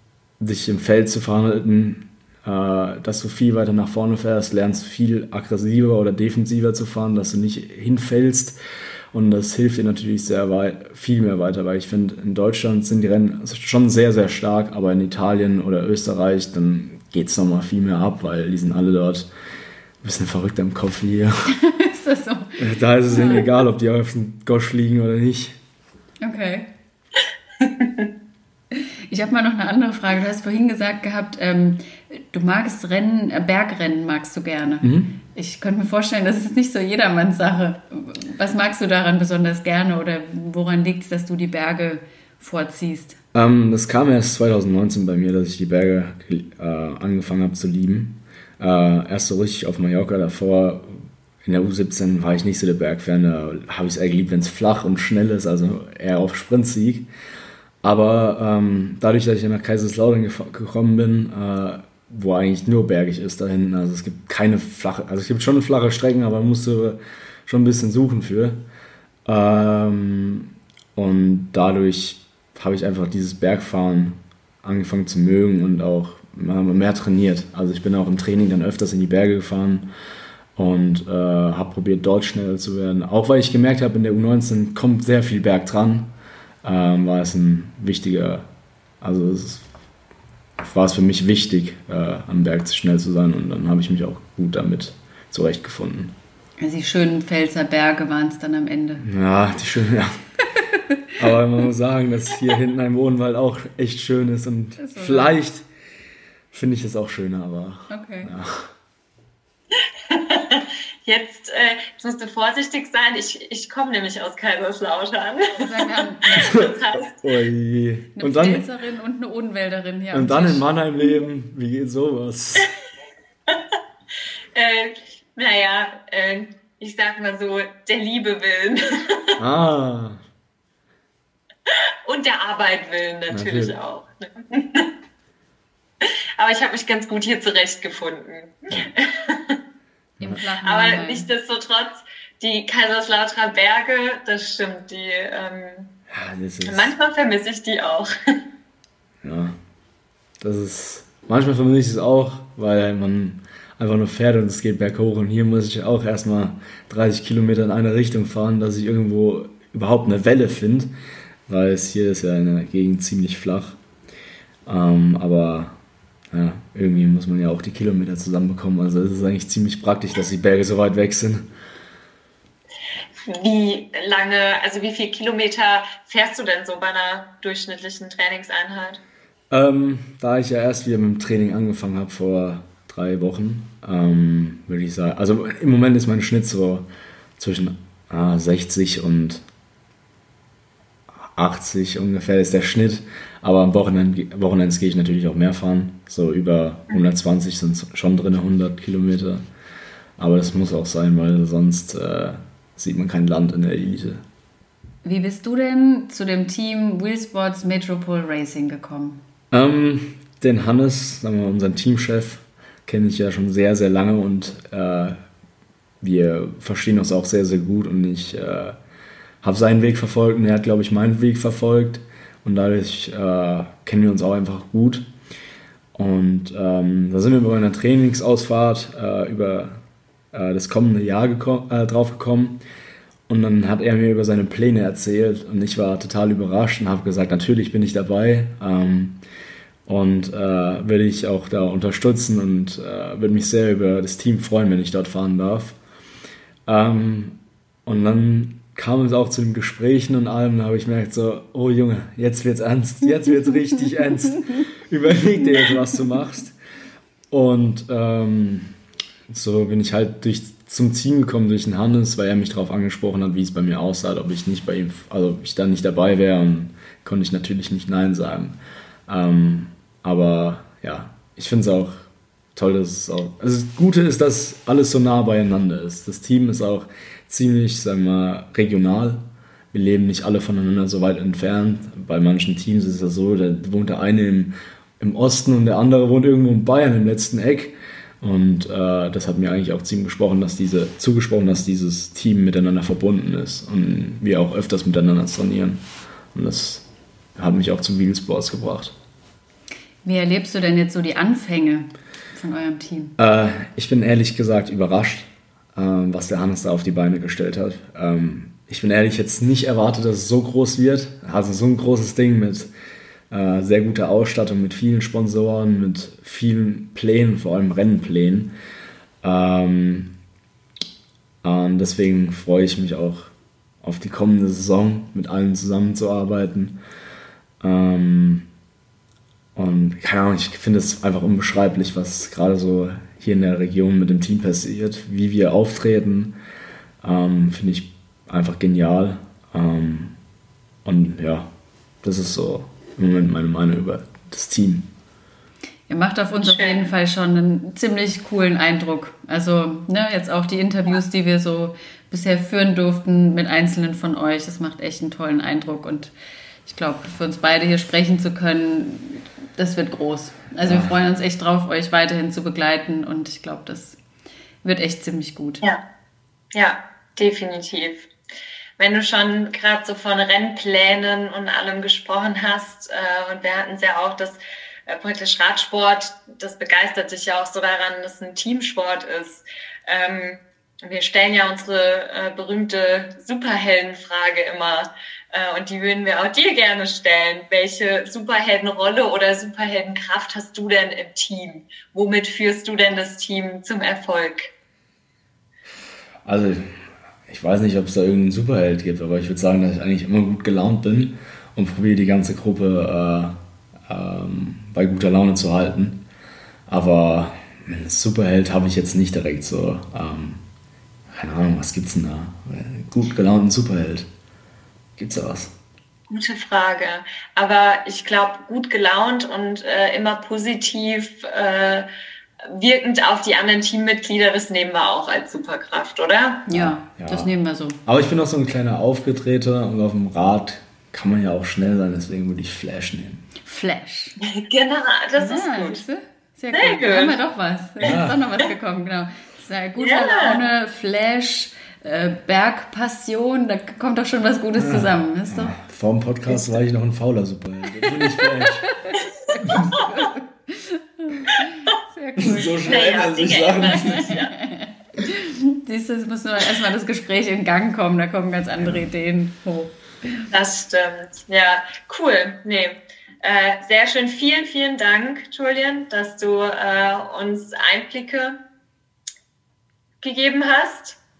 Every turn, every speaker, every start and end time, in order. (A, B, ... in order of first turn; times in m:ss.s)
0:00.4-0:08.6 A
0:09.1-0:19.3 A
0:20.0-0:21.5 A
0:21.5-0:23.5 B
0:22.6-0:25.6 A
0:26.2-0:26.7 B
0:27.6-0:28.1 C
0:28.7-0:43.2 B
0:34.8-0:35.1 A
0:43.3-0:57.1 A
0:57.8-1:08.6 A
1:09.2-1:19.9 A
1:20.5-1:28.5 A
1:29.0-1:29.6 A
1:30.6-1:36.1 A
1:36.6-1:39.1 B
1:39.0-1:40.2 A
1:40.7-1:41.0 B
1:41.2-1:45.6 A
1:44.8-1:45.3 B
1:46.5-1:48.7 A
1:47.9-1:48.3 B
1:50.0-1:57.2 C
1:55.5-1:56.6 B
1:56.4-1:58.6 A
1:58.2-2:00.6 B
2:00.1-2:02.7 A
2:03.5-2:03.7 C
2:04.5-2:09.4 C
2:09.4-2:10.2 A
2:11.7-2:14.9 C
2:13.3-2:13.7 A
2:16.0-2:19.6 C
2:20.2-2:21.3 B
2:20.6-2:25.9 C
2:26.1-2:26.9 A
2:26.6-2:28.4 C
2:29.2-2:29.6 A
2:30.4-2:40.9 A
2:41.5-2:43.8 A
2:44.6-2:45.8 A
2:46.3-2:51.5 A
2:53.2-2:59.0 C
2:59.5-3:06.9 A
3:07.4-3:09.4 A
3:11.3-3:19.4 A
3:20.2-3:24.2 A
3:25.0-3:29.2 B
3:29.5-3:35.2 A
3:36.0-3:38.8 A
3:39.4-3:45.0 A
3:45.9-3:49.8 A
3:50.3-3:52.6 A
3:53.3-3:59.2 A
3:59.8-4:05.8 A
4:06.7-4:16.5 A
4:17.3-4:18.7 A
4:19.3-4:55.8 A
4:56.3-4:56.8 A
4:57.4-4:58.9 A
5:00.0-5:03.1 B
5:03.2-5:12.7 A
5:13.3-5:18.5 A
5:19.2-5:20.1 A
5:21.4-5:26.8 A
5:27.6-5:28.5 A
5:29.5-5:36.3 A
5:37.0-5:40.2 A
5:40.8-5:41.5 A
5:42.0-5:44.9 A
5:45.9-5:56.1 B
5:46.4-5:46.9 C
5:56.6-6:04.0 B
6:00.6-6:01.0 A
6:04.6-6:05.6 B
6:06.5-6:08.1 C
6:08.8-6:34.5 C
6:36.2-6:36.8 A
6:37.3-6:46.0 A
6:46.7-6:50.4 A
6:51.1-6:54.1 A
6:55.0-6:55.5 A
6:56.1-7:01.9 C
7:02.4-7:06.5 C
7:06.5-7:07.8 B
7:06.5-7:07.3 A
7:07.8-7:13.3 A
7:13.4-7:14.2 B
7:14.2-7:15.8 C
7:15.2-7:25.5 B
7:16.5-7:17.2 C
7:17.8-7:18.2 A
7:19.8-7:20.4 C
7:24.6-7:28.7 A
7:26.3-7:26.6 B
7:27.9-7:33.0 B
7:32.2-7:34.1 A
7:32.6-7:34.3 C
7:33.6-7:40.2 B
7:38.6-7:38.9 A
7:40.3-7:48.4 C
7:50.0-7:51.0 C